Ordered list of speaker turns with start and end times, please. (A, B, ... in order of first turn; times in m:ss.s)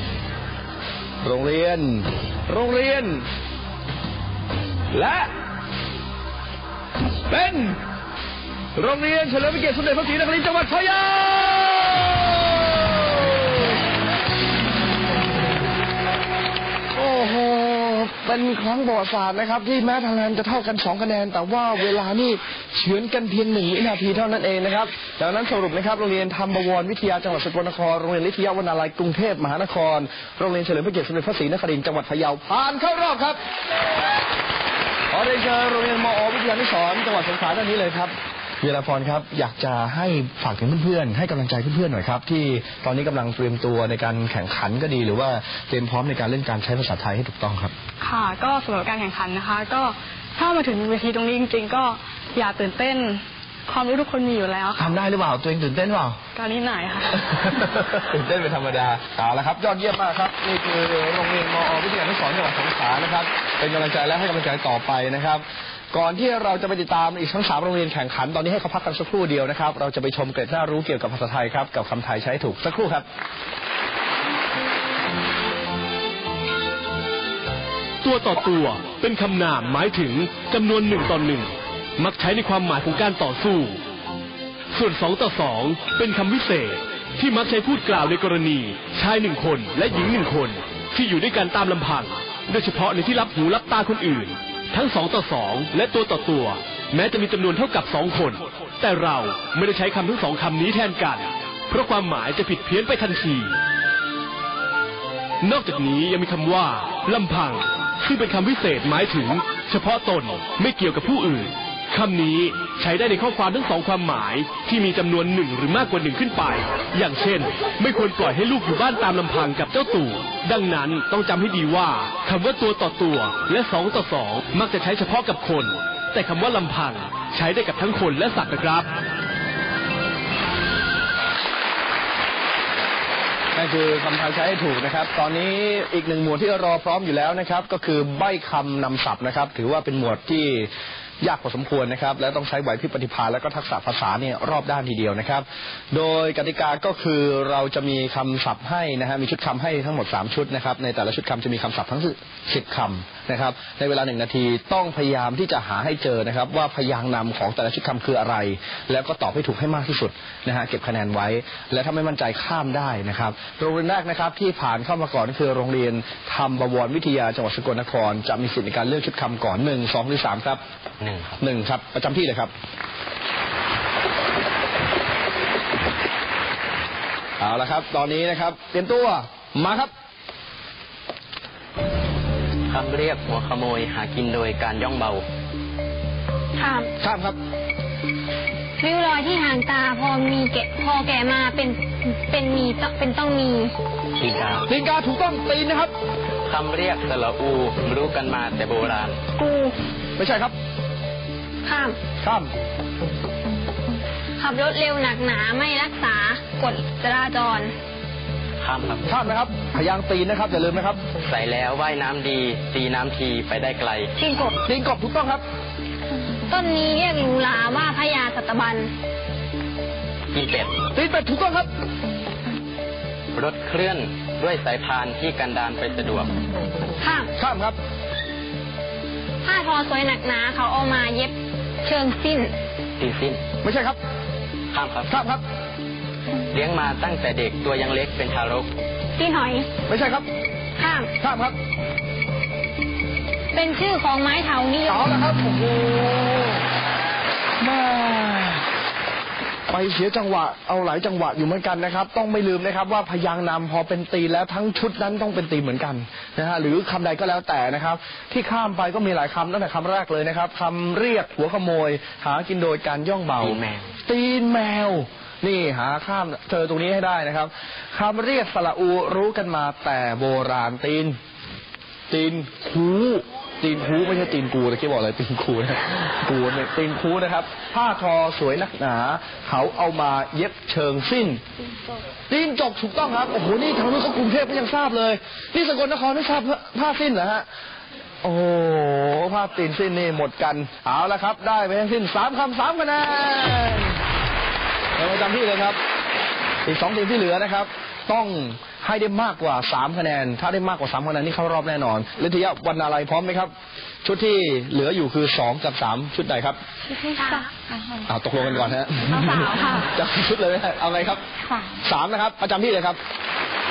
0:01.2-0:03.2 A
0:04.9-0:05.3 A
0:07.3-0:07.8 A
0:08.8-0:13.7 A
0:16.9-0:33.4 A
0:35.1-0:47.7 A
0:48.0-0:54.9 B
0:54.8-0:56.2 A
0:56.3-0:57.3 B
0:57.2-1:13.0 A
1:18.0-1:23.8 C
1:24.7-1:43.6 C
1:45.4-2:08.9 C
2:13.5-2:50.6 A
2:51.0-2:51.3 D
2:51.4-2:52.5 A
2:57.4-2:59.9 A
3:02.7-3:05.2 D
3:06.6-3:06.9 E
3:07.0-3:07.4 A
3:08.8-3:13.7 E
3:14.2-3:14.7 D
3:14.7-3:15.9 A
3:16.4-3:19.2 D
3:19.4-3:19.7 E
3:20.2-3:20.5 A
3:21.6-3:22.0 E
3:22.2-3:22.5 A
3:24.4-3:27.7 E
3:28.6-3:29.0 D
3:29.0-3:31.0 A
3:31.2-3:34.1 D
3:34.2-3:34.6 E
3:34.6-3:35.4 A
3:36.5-3:38.9 E
3:40.3-3:40.8 D
3:40.9-3:41.7 A
3:43.3-3:46.3 D
3:47.0-3:47.3 E
3:47.4-3:47.8 A
3:49.4-3:52.5 E
3:53.0-3:53.4 D
3:53.6-3:54.0 A
3:54.7-3:55.1 D
3:55.1-3:55.4 A
3:56.5-3:58.7 D
3:59.2-3:59.7 E
3:59.9-4:00.2 A
4:00.8-4:01.1 E
4:01.2-4:01.6 A
4:03.5-4:05.0 E
4:04.9-4:06.6 A
4:07.6-4:08.6 A
4:09.7-4:31.2 A
4:23.4-4:23.9 D
4:32.1-4:41.4 A
4:42.3-4:47.4 A
4:48.2-4:54.0 A
4:55.0-4:55.8 A
4:56.6-5:03.5 A
5:04.0-5:06.6 A
5:06.9-5:08.0 B
5:08.1-5:11.2 A
5:09.3-5:09.8 B
5:11.8-5:13.0 A